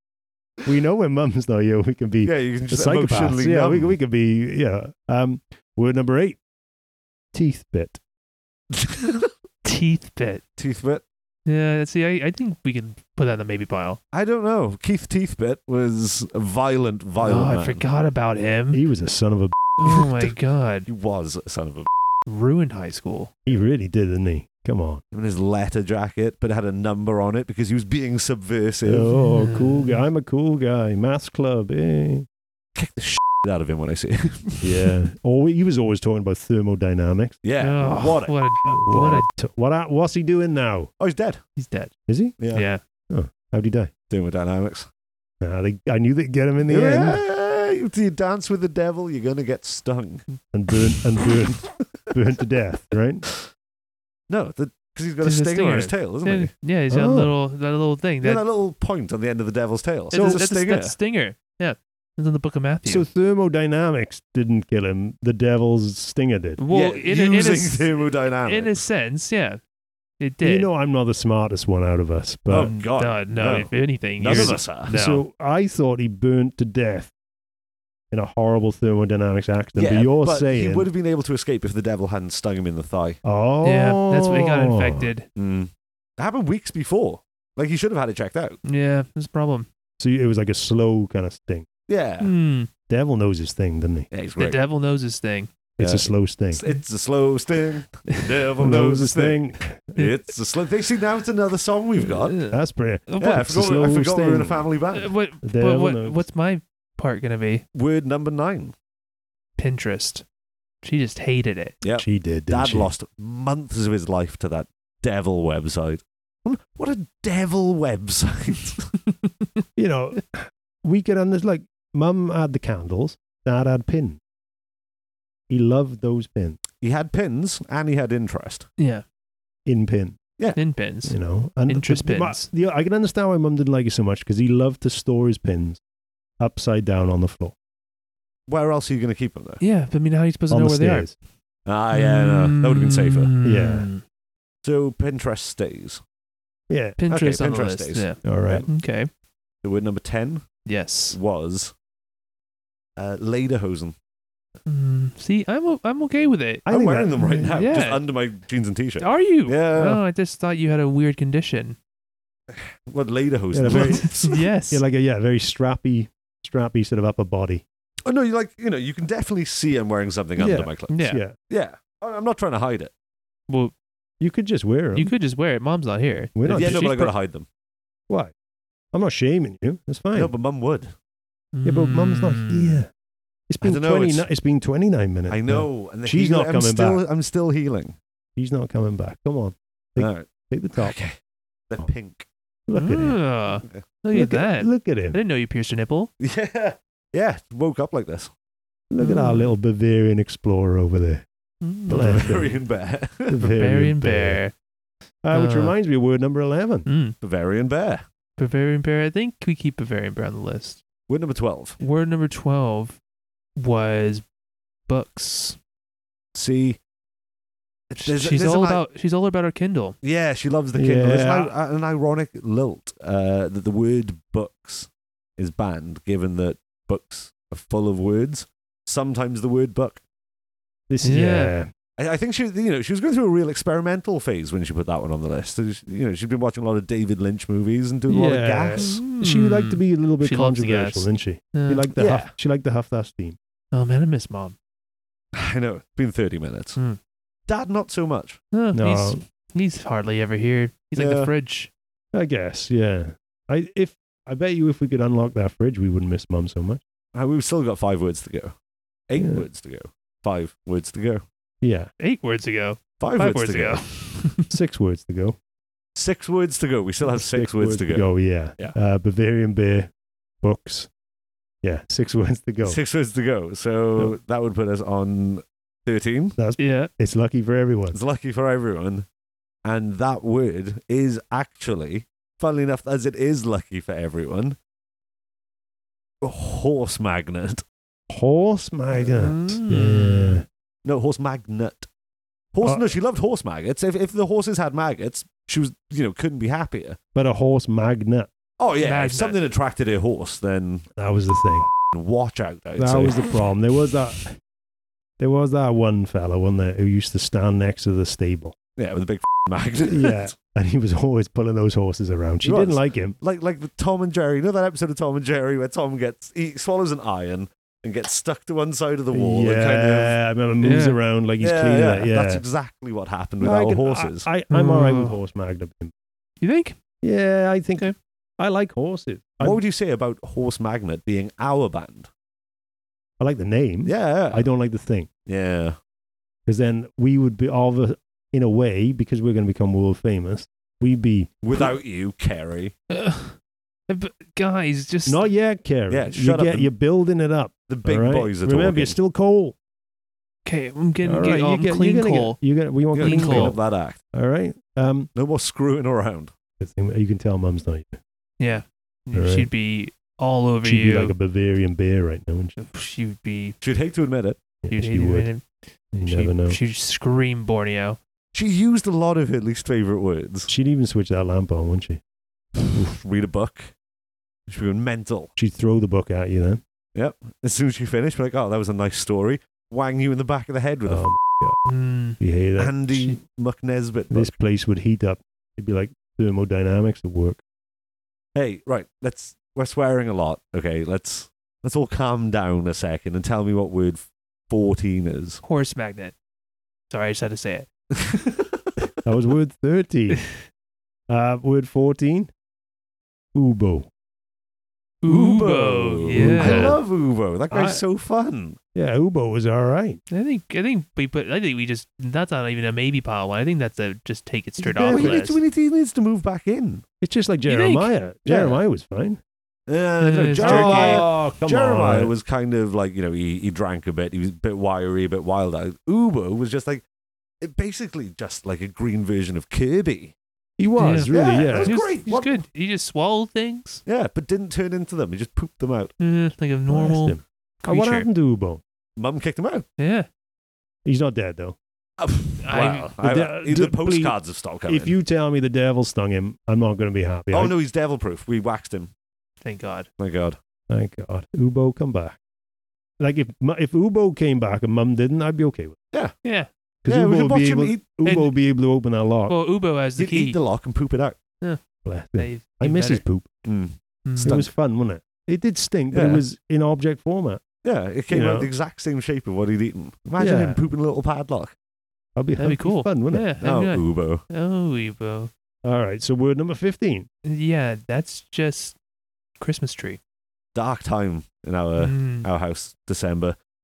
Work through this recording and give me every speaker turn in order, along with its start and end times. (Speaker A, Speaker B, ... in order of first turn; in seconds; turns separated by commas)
Speaker A: 0.6-6.4, Speaker B: 2.2-3.9, Speaker A: 7.3-8.0, Speaker B: 8.7-9.3, Speaker C: 9.6-10.4, Speaker B: 10.6-11.0, Speaker C: 11.4-14.0, Speaker B: 14.1-17.8, Speaker C: 17.2-18.8, Speaker A: 18.7-19.6, Speaker C: 19.8-20.9, Speaker B: 20.9-21.9, Speaker C: 22.3-23.3, Speaker A: 23.4-25.0, Speaker B: 25.1-29.1, Speaker A: 28.8-32.3, Speaker C: 29.1-30.0, Speaker B: 32.8-34.9, Speaker A: 34.6-37.4, Speaker B: 37.4-38.3, Speaker C: 37.6-39.2, Speaker A: 38.6-40.9, Speaker B: 41.0-41.4, Speaker C: 41.5-41.9, Speaker A: 42.1-42.4, Speaker B: 42.4-42.6, Speaker C: 42.5-42.8, Speaker A: 43.1-43.9, Speaker B: 44.1-44.9, Speaker A: 45.4-47.2, Speaker B: 46.6-50.2, Speaker A: 50.5-53.3, Speaker B: 51.3-52.1, Speaker B: 54.3-56.5, Speaker C: 55.2-58.4, Speaker A: 56.9-57.3, Speaker B: 58.2-60.9, Speaker C: 60.1-63.0, Speaker A: 60.1-60.4, Speaker A: 62.9-66.6, Speaker C: 66.6-69.6, Speaker B: 66.7-68.8, Speaker C: 70.2-70.7, Speaker A: 70.4-72.7, Speaker B: 72.5-74.9, Speaker C: 72.6-75.2, Speaker A: 74.2-77.1, Speaker A: 78.1-80.9, Speaker B: 79.8-83.2, Speaker A: 83.2-85.1, Speaker C: 83.6-85.3, Speaker B: 85.3-88.6, Speaker C: 88.6-89.7, Speaker A: 90.0-91.7, Speaker B: 91.9-92.3, Speaker C: 92.2-92.7, Speaker A: 92.9-94.1, Speaker B: 94.1-94.6, Speaker C: 94.4-95.5, Speaker A: 95.8-96.6, Speaker B: 95.8-99.4, Speaker A: 98.6-100.0, Speaker B: 99.9-102.3, Speaker C: 102.0-103.6, Speaker A: 102.5-104.6, Speaker B: 103.2-105.1, Speaker C: 104.9-107.6, Speaker A: 105.4-106.2, Speaker B: 107.7-108.7, Speaker C: 109.6-110.2, Speaker C: 110.8-111.8, Speaker B: 111.8-118.9, Speaker A: 112.0-112.9, Speaker A: 119.8-124.2, Speaker A: 125.5-126.6, Speaker B: 126.8-128.7, Speaker C: 128.8-129.0, Speaker A: 129.7-130.2, Speaker C: 130.6-132.5, Speaker A: 131.0-135.8, Speaker A: 136.4-137.5, Speaker B: 138.5-139.6, Speaker C: 139.6-141.1, Speaker A: 140.5-141.1, Speaker B: 141.7-143.3, Speaker C: 141.9-144.0, Speaker A: 143.4-143.9, Speaker B: 144.6-146.0, Speaker A: 146.7-147.0, Speaker C: 147.0-149.1, Speaker B: 147.1-148.7, Speaker A: 148.2-148.7, Speaker B: 149.6-150.5, Speaker C: 150.6-151.2, Speaker B: 151.1-151.7, Speaker B: 153.0-153.9, Speaker C: 154.7-156.6, Speaker A: 156.7-157.6, Speaker B: 156.7-160.0, Speaker C: 157.4-158.0, Speaker C: 159.0-161.8, Speaker B: 162.5-164.4, Speaker A: 163.5-164.2, Speaker C: 163.7-164.8, Speaker A: 164.7-167.6, Speaker B: 168.1-172.9, Speaker A: 170.4-171.3, Speaker C: 170.9-171.2, Speaker A: 174.2-175.1, Speaker C: 174.9-177.1, Speaker A: 176.3-176.9, Speaker B: 176.5-177.4, Speaker A: 178.9-180.3, Speaker B: 180.1-180.9, Speaker C: 181.5-182.8, Speaker A: 181.6-182.9, Speaker A: 183.5-187.0, Speaker B: 183.6-184.2, Speaker B: 185.3-188.0, Speaker A: 188.3-191.0, Speaker B: 190.0-191.2, Speaker B: 191.7-192.3, Speaker A: 192.7-193.1, Speaker C: 192.7-196.1, Speaker A: 194.1-195.2, Speaker B: 196.2-198.3, Speaker A: 198.9-201.2, Speaker C: 199.0-199.5, Speaker C: 201.6-202.5, Speaker A: 201.9-202.6, Speaker B: 201.9-203.5, Speaker A: 203.3-204.4, Speaker C: 203.5-204.5, Speaker A: 205.2-206.8, Speaker C: 205.3-205.7, Speaker C: 206.8-207.2, Speaker B: 207.2-208.0, Speaker C: 208.4-210.8, Speaker B: 211.1-211.8, Speaker C: 211.8-213.0, Speaker C: 213.6-214.2, Speaker C: 214.9-215.6, Speaker B: 216.3-216.8, Speaker B: 217.9-218.8, Speaker C: 218.0-220.0, Speaker B: 220.0-230.0, Speaker A: 220.7-221.5, Speaker A: 230.9-231.7, Speaker C: 231.0-231.5, Speaker B: 232.0-239.0, Speaker A: 238.1-243.4, Speaker C: 238.7-241.9, Speaker B: 241.9-242.3, Speaker C: 243.7-244.5, Speaker B: 245.3-246.8, Speaker B: 247.5-248.4, Speaker C: 248.5-251.7, Speaker A: 248.7-249.2, Speaker B: 250.9-251.3, Speaker A: 252.1-256.8, Speaker B: 257.1-258.5, Speaker B: 259.1-261.2, Speaker A: 259.2-259.4, Speaker A: 261.6-261.9, Speaker C: 262.0-264.5, Speaker B: 263.0-263.8, Speaker A: 264.5-265.4, Speaker B: 265.9-268.8, Speaker A: 267.1-269.9, Speaker A: 270.4-270.9, Speaker A: 271.6-272.8, Speaker B: 272.6-276.4, Speaker A: 276.4-278.0, Speaker C: 276.6-276.9, Speaker B: 277.9-279.1, Speaker B: 279.6-284.6, Speaker B: 286.2-287.6, Speaker A: 288.1-290.4, Speaker C: 289.0-290.4, Speaker B: 290.8-291.9, Speaker B: 292.5-297.0, Speaker A: 292.6-292.9, Speaker A: 297.1-298.3, Speaker B: 298.6-300.9, Speaker C: 298.8-299.4, Speaker A: 301.0-301.7, Speaker B: 301.9-303.2, Speaker A: 302.8-304.4, Speaker A: 305.2-308.6, Speaker B: 308.8-310.3, Speaker A: 309.9-313.1, Speaker B: 312.4-320.2, Speaker A: 319.1-322.4, Speaker C: 320.6-321.0, Speaker B: 321.4-324.3, Speaker A: 323.4-325.9, Speaker C: 324.5-325.2, Speaker C: 326.4-326.8, Speaker A: 327.0-329.6, Speaker B: 329.4-332.1, Speaker A: 333.2-335.1, Speaker B: 333.8-334.5, Speaker B: 335.3-335.8, Speaker A: 336.4-341.7, Speaker B: 341.4-342.7, Speaker C: 342.9-343.4, Speaker C: 343.9-345.3, Speaker A: 345.1-349.6, Speaker B: 345.9-346.7, Speaker B: 347.7-348.9, Speaker C: 350.4-352.4, Speaker A: 351.0-353.6, Speaker B: 352.9-354.0, Speaker C: 353.0-353.5, Speaker A: 354.1-355.1, Speaker B: 355.1-356.3, Speaker A: 356.6-358.0, Speaker C: 358.4-361.1, Speaker A: 359.1-359.5, Speaker A: 360.6-362.6, Speaker C: 362.6-363.6, Speaker B: 363.6-364.4, Speaker A: 364.6-365.3, Speaker C: 364.7-368.0, Speaker A: 365.9-366.6, Speaker B: 368.3-370.5, Speaker A: 370.5-372.0, Speaker B: 372.6-373.7, Speaker B: 374.5-375.3, Speaker A: 375.4-376.6, Speaker B: 376.9-381.1, Speaker A: 380.9-381.6, Speaker C: 381.6-382.2, Speaker A: 382.2-382.8, Speaker B: 382.6-384.3, Speaker A: 384.1-387.4, Speaker B: 388.3-395.4, Speaker C: 395.4-396.1, Speaker C: 396.9-397.7, Speaker B: 397.9-398.7, Speaker A: 399.0-400.2, Speaker A: 401.1-402.3, Speaker A: 403.3-403.9, Speaker C: 405.0-406.8, Speaker B: 405.0-408.6, Speaker A: 406.1-406.8, Speaker A: 407.5-407.8, Speaker A: 408.7-410.0, Speaker C: 410.1-415.4, Speaker A: 414.6-415.1, Speaker B: 414.6-416.8, Speaker A: 417.0-419.2, Speaker C: 417.5-417.9, Speaker B: 418.2-418.6, Speaker B: 419.7-426.8, Speaker C: 420.0-421.1, Speaker A: 420.4-422.1, Speaker B: 427.4-430.1, Speaker A: 430.6-431.8, Speaker C: 430.8-433.8, Speaker B: 431.1-432.4, Speaker B: 433.9-435.9, Speaker C: 436.0-438.1, Speaker A: 436.7-438.6, Speaker B: 439.0-439.6, Speaker C: 439.8-440.1, Speaker A: 440.8-441.6, Speaker B: 442.0-444.9, Speaker C: 442.4-442.9, Speaker A: 443.0-444.1, Speaker A: 444.7-447.5, Speaker B: 447.3-448.9, Speaker C: 449.4-449.9, Speaker B: 450.0-450.4, Speaker A: 450.7-452.2, Speaker A: 453.0-455.8, Speaker C: 456.2-456.5, Speaker A: 456.8-459.4, Speaker B: 456.9-457.8, Speaker C: 458.0-458.3, Speaker C: 459.3-460.4, Speaker B: 460.0-461.2, Speaker A: 461.8-463.3, Speaker C: 462.2-463.0, Speaker B: 463.4-464.5, Speaker C: 464.1-464.4, Speaker A: 464.2-467.4, Speaker B: 465.9-466.2, Speaker B: 467.6-471.5, Speaker A: 468.1-468.5, Speaker A: 470.2-470.6, Speaker A: 472.1-473.3, Speaker C: 472.4-475.3, Speaker B: 473.4-474.2, Speaker A: 475.6-477.1, Speaker C: 477.2-478.8, Speaker C: 479.4-480.0, Speaker B: 480.5-483.4, Speaker C: 481.8-482.3